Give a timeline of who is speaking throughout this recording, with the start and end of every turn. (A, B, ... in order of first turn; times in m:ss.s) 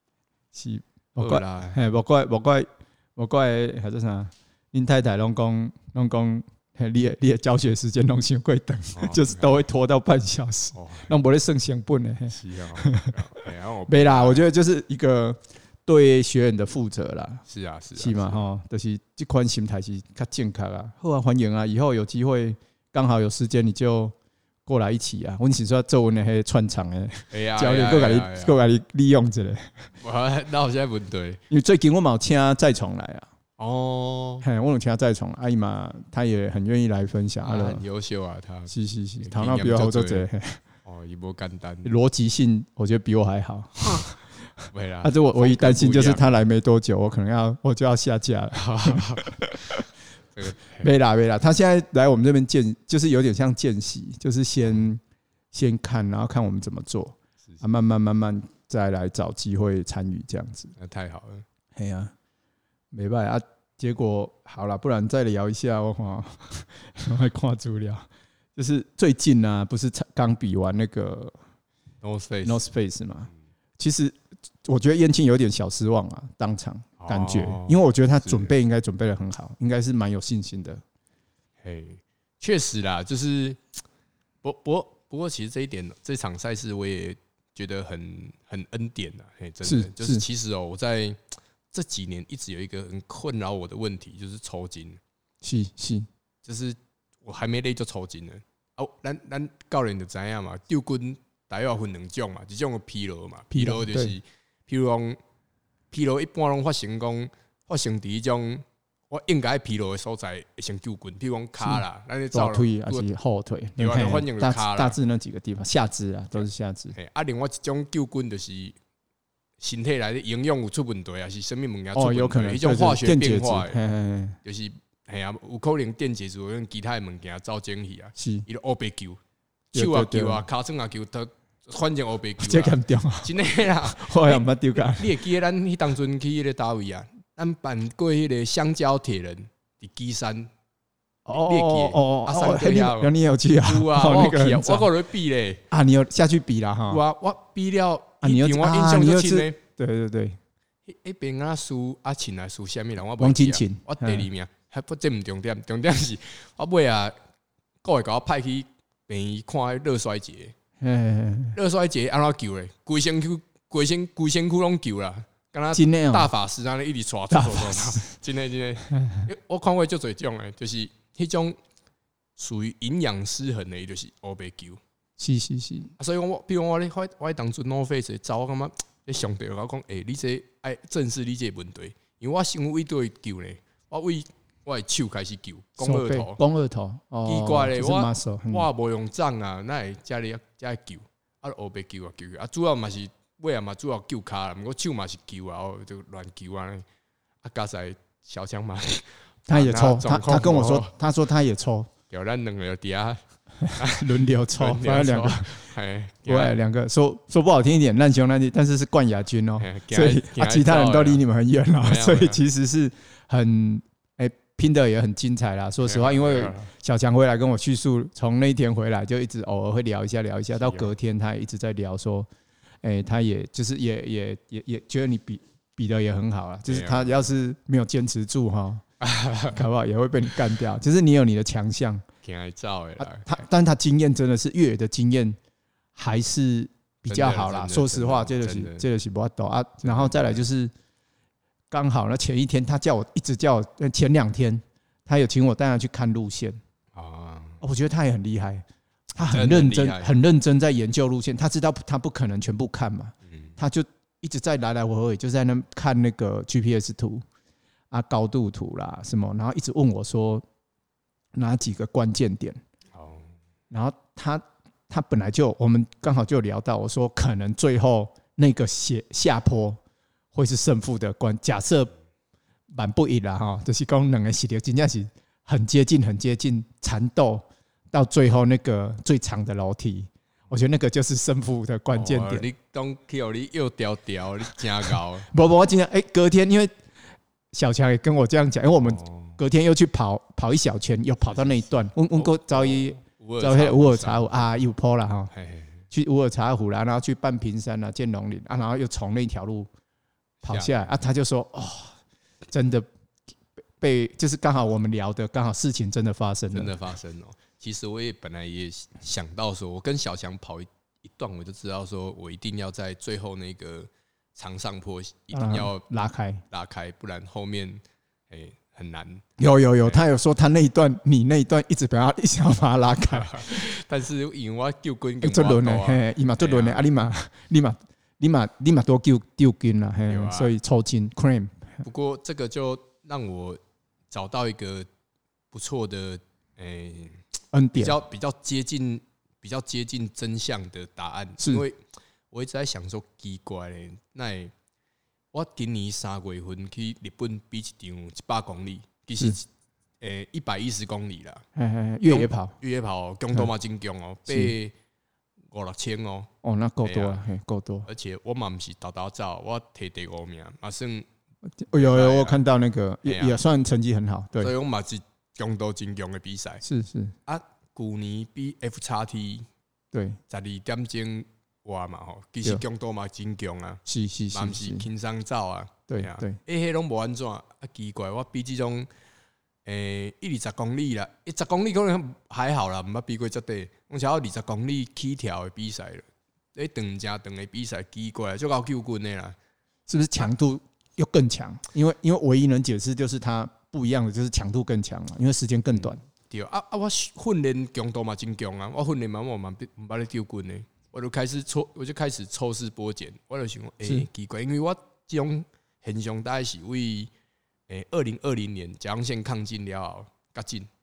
0:00.5-0:13.1 A
0:01.2-0:01.8 B
0:08.9-0:09.5 B
0:10.7-0:11.1 B
0:12.3-0:14.4 B
0:13.9-0:17.4 A
0:17.5-0:18.4 B
0:18.0-0:24.1 A
0:24.6-0:29.9 A
0:27.3-0:28.6 B
0:30.0-0:31.4 B
0:31.5-0:33.3 A
0:33.6-0:34.4 B
0:34.4-0:37.8 A
0:37.4-0:40.3 B
0:38.7-0:40.6 A
0:40.8-0:42.0 B
0:41.8-0:44.2 A
0:44.7-0:46.3 B
0:45.0-0:49.8 A
0:48.5-0:50.9 B
0:50.8-1:00.8 A
1:00.8-1:01.4 B
1:01.8-1:02.1 A
1:02.9-1:11.4 A
1:12.0-1:12.6 B
1:12.4-1:20.8 A
1:17.0-1:18.5 B
1:21.6-1:23.6 B
1:24.4-1:31.2 B
1:29.6-1:30.2 A
1:31.7-1:35.0 B
1:35.4-1:36.1 A
1:36.4-1:45.2 B
1:43.5-1:44.1 A
1:45.9-1:53.1 B
1:51.6-1:56.9 A
1:53.8-1:55.0 B
1:56.4-1:58.8 B
1:59.6-2:03.8 B
2:01.9-2:04.4 A
2:04.4-2:09.2 B
2:08.2-2:08.4 A
2:09.7-2:20.5 B
2:09.7-2:10.4 A
2:12.4-2:15.2 A
2:21.2-2:24.9 A
2:21.3-2:23.1 B
2:23.6-2:25.6 B
2:25.7-2:27.0 A
2:26.9-2:29.6 B
2:28.2-2:30.4 A
2:30.8-2:37.1 B
2:33.2-2:34.3 A
2:37.8-2:40.5 B
2:40.8-2:41.6 A
2:41.5-2:51.6 B
2:45.7-2:46.3 A
2:47.3-2:48.0 A
2:52.4-2:54.8 B
2:55.2-2:55.9 A
2:56.0-3:06.4 B
3:05.8-3:08.7 A
3:07.2-3:16.8 B
3:17.4-3:20.9 B
3:19.5-3:21.9 A
3:22.1-3:26.5 B
3:23.8-3:25.6 A
3:26.2-3:42.3 A
3:29.6-3:31.2 B
3:31.8-3:32.4 B
3:35.8-3:36.7 B
3:40.6-3:40.9 B
3:42.8-3:48.8 A
3:46.7-3:47.2 B
3:49.0-3:49.6 B
3:49.5-3:52.0 A
3:52.2-3:53.4 B
3:53.0-3:55.4 A
3:56.0-4:00.7 A
3:57.1-3:58.8 B
3:59.8-4:00.4 B
4:01.7-4:06.6 A
4:06.9-4:07.6 B
4:07.6-4:17.2 A
4:09.2-4:10.2 B
4:13.2-4:13.6 B
4:17.9-4:20.4 A
4:21.3-4:22.6 A
4:22.9-4:23.3 B
4:23.7-4:29.8 A
4:30.3-4:31.9 A
4:32.7-4:42.5 A
4:41.9-4:45.3 B
4:45.3-4:46.7 A
4:47.5-4:55.3 A
4:48.8-4:49.4 B
4:51.3-4:54.6 B
4:55.3-4:55.8 B
4:55.9-4:59.7 A
5:00.4-5:00.9 B
5:00.4-5:02.0 A
5:02.5-5:02.9 A
5:03.8-5:06.8 A
5:06.5-5:15.8 B
5:15.3-5:16.4 A
5:16.5-5:19.2 B
5:19.4-5:23.6 A
5:23.1-5:26.8 B
5:25.2-5:31.8 A
5:30.1-5:30.5 B
5:31.8-5:34.9 B
5:35.5-5:37.2 B
5:37.5-5:38.0 A
5:37.8-5:44.5 B
5:41.4-5:41.6 A
5:45.3-5:49.5 B
5:50.0-5:51.4 B
5:51.5-5:52.5 A
5:52.1-5:54.7 B
5:54.3-5:54.5 A
5:55.5-5:56.3 B
5:56.4-5:57.9 A
5:56.8-5:57.2 B
5:57.8-6:01.0 B
6:01.6-6:04.5 A
6:01.7-6:02.4 B
6:03.0-6:03.4 B
6:04.4-6:06.6 B
6:06.6-6:07.1 A
6:07.2-6:09.5 B
6:09.9-6:10.2 A
6:10.3-6:18.9 B
6:13.8-6:14.9 A
6:15.9-6:16.4 A
6:19.6-6:29.4 B
6:29.9-6:36.0 A
6:35.8-6:47.1 B
6:47.7-6:50.7 B